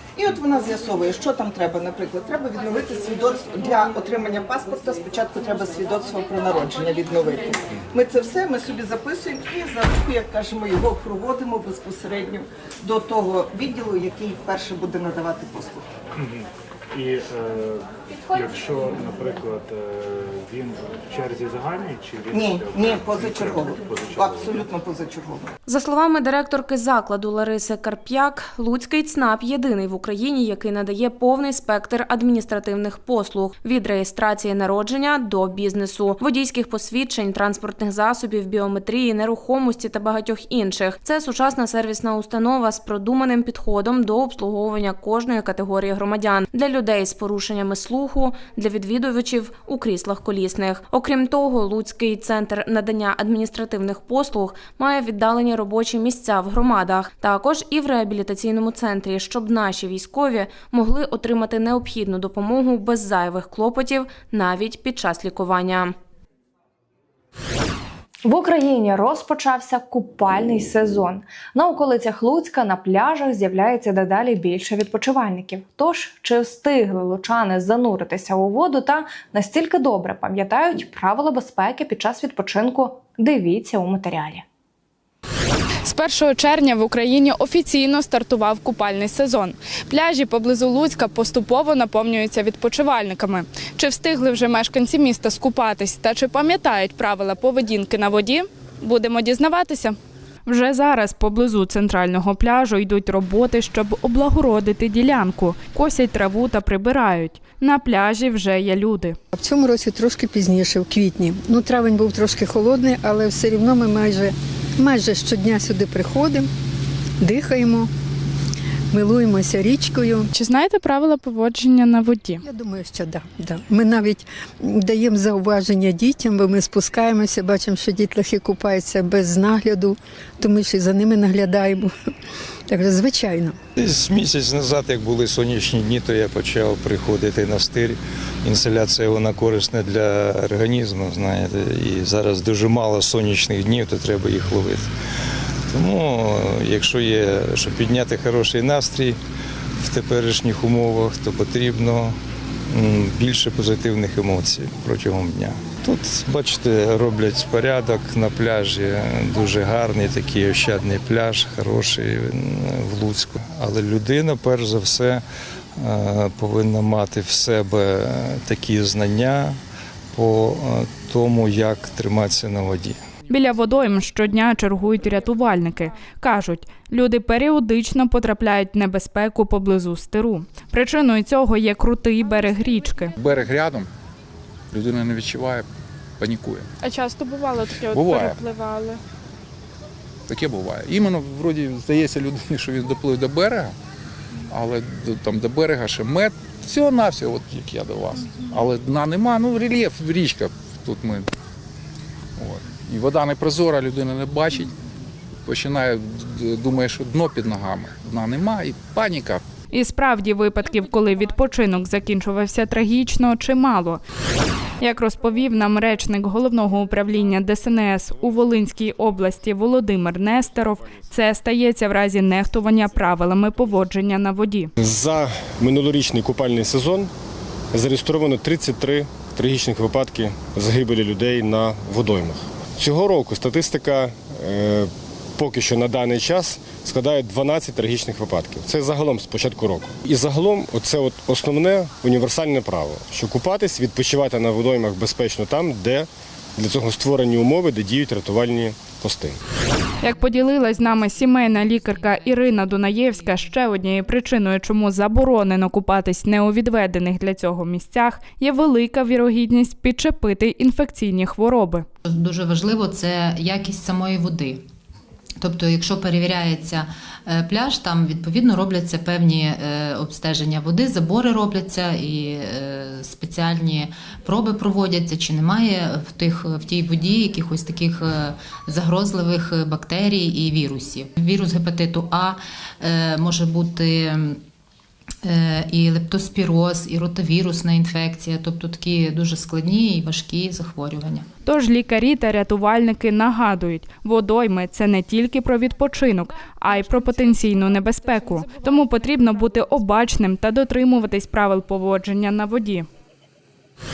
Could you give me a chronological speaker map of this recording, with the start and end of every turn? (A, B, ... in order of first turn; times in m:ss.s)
0:00.2-0:15.9 A
0:16.2-0:24.7 B
0:22.3-0:25.5 A
0:25.7-1:05.9 C
1:08.3-1:24.4 D
1:25.8-1:49.2 E
1:49.3-1:56.5 F
1:57.2-1:57.9 F
1:58.9-2:00.3 F
2:00.3-2:02.4 E
2:02.4-2:11.9 F
2:12.7-2:13.6 F
2:13.8-2:24.9 G
2:25.7-2:29.2 G
2:29.8-2:32.1 G
2:32.7-2:45.2 G
2:45.8-2:49.6 G
2:50.1-2:53.0 G
2:53.3-3:03.1 E
3:03.2-3:03.9 H
3:04.7-3:05.7 H
3:06.2-3:06.7 H
3:06.8-3:09.0 E
3:07.9-3:08.4 H
3:10.3-3:13.7 H
3:14.5-3:21.3 H
3:22.4-3:24.7 H
3:25.5-3:29.4 H
3:29.7-3:34.0 E
3:34.8-3:44.7 E
3:44.8-3:47.1 I
3:47.7-4:09.4 I
4:10.0-4:13.6 J
4:10.0-4:21.8 E
4:22.0-4:24.6 J
4:25.4-4:44.4 J
4:45.2-4:51.3 J
4:51.4-5:02.9 E